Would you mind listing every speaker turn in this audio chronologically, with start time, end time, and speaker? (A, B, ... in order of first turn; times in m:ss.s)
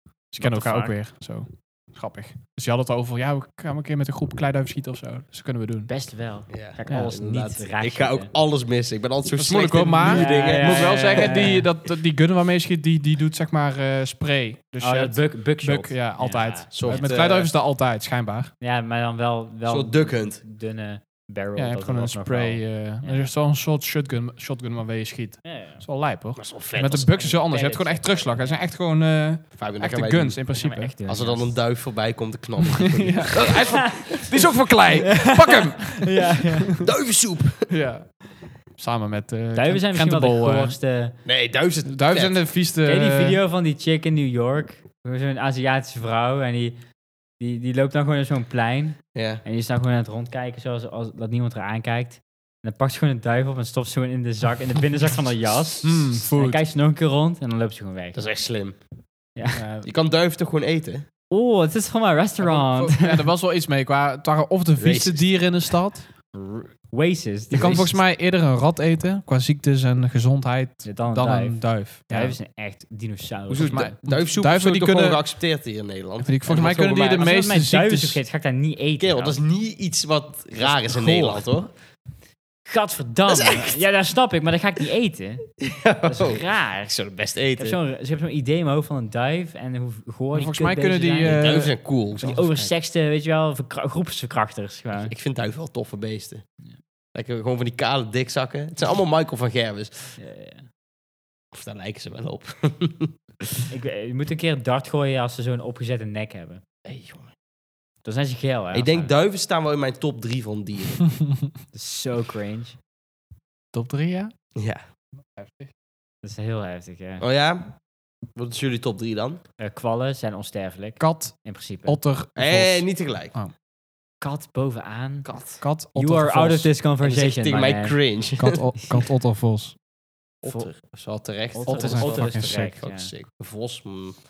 0:00.3-0:05.9 A
0:00.4-0:00.9 B
0:05.9-0:08.3 B
0:06.5-0:11.6 C
0:06.9-0:07.1 A
0:09.4-0:18.5 A
0:10.0-0:11.7 B
0:14.8-0:17.1 B
0:16.7-0:17.5 C
0:18.6-0:23.3 B
0:19.7-0:20.4 C
0:21.6-0:30.9 A
0:25.4-0:25.8 B
0:26.4-0:27.1 C
0:26.9-0:28.6 B
0:29.6-0:30.4 C
0:30.5-0:31.6 B
0:31.1-0:34.2 C
0:32.8-0:36.8 A
0:35.0-0:36.8 B
0:36.8-0:37.7 C
0:37.7-0:38.1 A
0:38.8-0:40.8 A
0:39.6-0:41.2 B
0:41.2-0:42.4 C
0:41.8-0:43.4 A
0:42.8-0:46.8 B
0:47.4-0:58.2 B
0:49.1-0:49.4 C
0:55.8-0:56.6 A
0:58.1-0:58.8 C
0:59.4-0:59.6 B
0:59.5-0:59.9 A
0:59.8-1:01.1 C
1:01.3-1:03.3 B
1:02.4-1:06.1 A
1:04.8-1:05.3 C
1:06.3-1:08.0 B
1:07.5-1:12.4 A
1:10.8-1:14.0 B
1:13.5-1:17.3 C
1:13.6-1:15.2 A
1:16.2-1:18.2 A
1:17.1-1:19.4 B
1:19.0-1:21.7 C
1:20.6-1:21.4 A
1:22.7-1:25.5 B
1:23.3-1:23.8 C
1:25.6-1:27.8 C
1:26.0-1:27.0 B
1:27.6-1:35.1 B
1:30.3-1:32.6 A
1:31.2-1:32.4 C
1:34.9-1:36.4 C
1:37.1-1:40.2 C
1:40.2-1:40.7 B
1:41.5-1:43.7 C
1:43.7-1:46.6 B
1:46.8-1:47.3 C
1:48.0-1:49.1 B
1:48.7-1:51.0 C
1:51.7-1:52.8 B
1:53.7-1:54.3 A
1:54.6-1:54.8 C
1:55.3-1:55.7 A
1:56.2-1:57.2 B
1:57.2-1:57.8 C
1:58.4-1:59.4 C
1:59.6-2:02.0 B
2:01.0-2:03.5 A
2:02.4-2:03.3 C
2:04.2-2:05.3 B
2:05.2-2:05.6 C
2:05.6-2:06.7 A
2:06.0-2:08.0 B
2:07.0-2:08.9 C
2:08.4-2:09.8 A
2:10.4-2:14.2 C
2:11.5-2:13.1 B
2:11.7-2:12.7 A